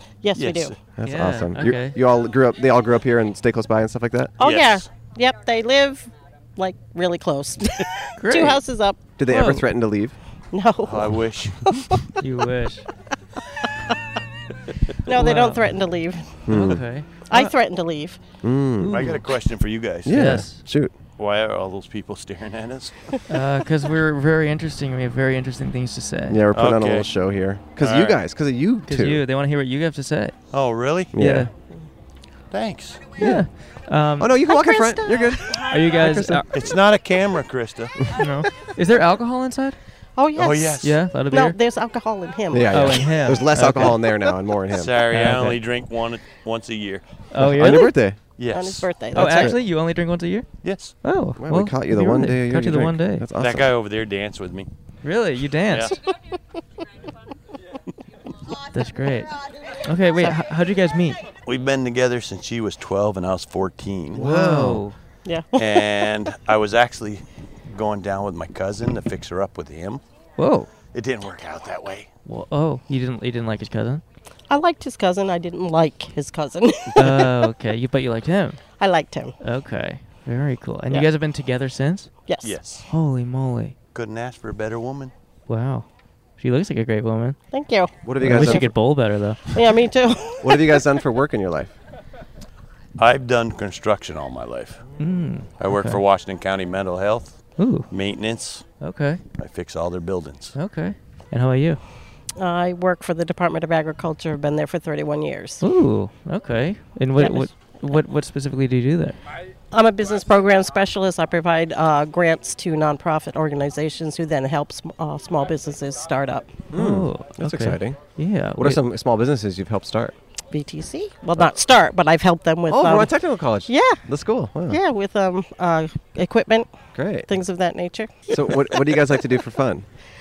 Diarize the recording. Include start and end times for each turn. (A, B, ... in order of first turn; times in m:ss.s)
0:00.2-0:00.7 A
0:00.3-0:00.8 B
0:01.0-0:04.3 C
0:01.0-0:02.0 D
0:04.4-0:09.0 A
0:04.4-0:04.9 B
0:08.2-0:08.6 D
0:09.2-0:10.2 C
0:09.3-0:09.6 D
0:10.5-0:12.1 A
0:10.8-0:11.7 B
0:12.2-0:12.8 D
0:15.0-0:16.4 A
0:15.1-0:15.6 D
0:16.4-0:16.8 C
0:16.5-0:17.5 D
0:17.3-0:18.2 A
0:18.4-0:19.2 C
0:18.8-0:19.1 D
0:18.9-0:20.2 B
0:20.0-0:20.9 C
0:20.1-0:20.6 D
0:21.2-0:23.1 B
0:23.3-0:26.4 D
0:26.3-0:29.2 C
0:26.5-0:27.1 B
0:27.8-0:28.2 B
0:28.9-0:30.3 D
0:30.5-0:31.1 B
0:31.1-0:31.5 C
0:31.2-0:31.5 D
0:32.5-0:33.0 B
0:33.2-0:33.5 C
0:33.2-0:34.4 D
0:34.2-0:36.4 C
0:34.5-0:35.8 A
0:35.6-0:36.5 D
0:36.5-0:37.9 B
0:38.1-0:39.8 D
0:40.2-0:43.1 A
0:40.3-0:41.0 B
0:40.8-0:41.6 D
0:42.5-0:45.0 C
0:42.7-0:44.0 D
0:44.7-0:47.0 B
0:45.1-0:45.6 D
0:47.3-0:47.9 D
0:47.4-0:48.2 C
0:48.4-0:48.9 B
0:48.5-0:49.6 A
0:49.1-0:50.5 D
0:49.1-0:49.6 C
0:50.6-0:50.9 B
0:51.0-0:53.2 D
0:51.4-0:53.7 C
0:53.4-0:54.7 B
0:55.0-0:56.0 D
0:55.7-0:56.0 B
0:58.7-1:01.2 D
1:01.4-1:04.2 B
1:04.1-1:04.8 C
1:04.2-1:05.0 D
1:05.2-1:06.1 A
1:05.6-1:10.0 B
1:10.4-1:10.7 D
1:10.9-1:12.1 B
1:12.2-1:14.0 D
1:14.5-1:17.4 A
1:17.0-1:18.6 D
1:18.8-1:19.4 A
1:19.4-1:22.1 D
1:22.3-1:22.6 A
1:22.4-1:22.8 B
1:22.9-1:23.7 D
1:23.9-1:25.1 B
1:25.5-1:25.9 D
1:26.4-1:27.4 D
1:27.5-1:28.7 A
1:28.0-1:28.7 C
1:28.2-1:29.4 D
1:29.5-1:31.0 A
1:30.4-1:31.7 C
1:33.0-1:34.8 B
1:35.0-1:36.0 D
1:35.6-1:38.6 B
1:37.6-1:37.9 D
1:38.8-1:39.2 D
1:39.4-1:40.5 B
1:40.5-1:41.8 D
1:42.4-1:45.6 A
1:45.6-1:49.2 D
1:47.2-1:47.5 A
1:49.7-1:56.6 A
1:56.7-1:58.0 C
1:56.7-1:58.8 D
1:58.6-2:00.1 C
2:00.5-2:03.1 A
2:02.7-2:04.8 C
2:03.6-2:04.0 A
2:04.7-2:06.7 A
2:06.9-2:07.3 C
2:07.3-2:09.0 A
2:08.3-2:09.8 C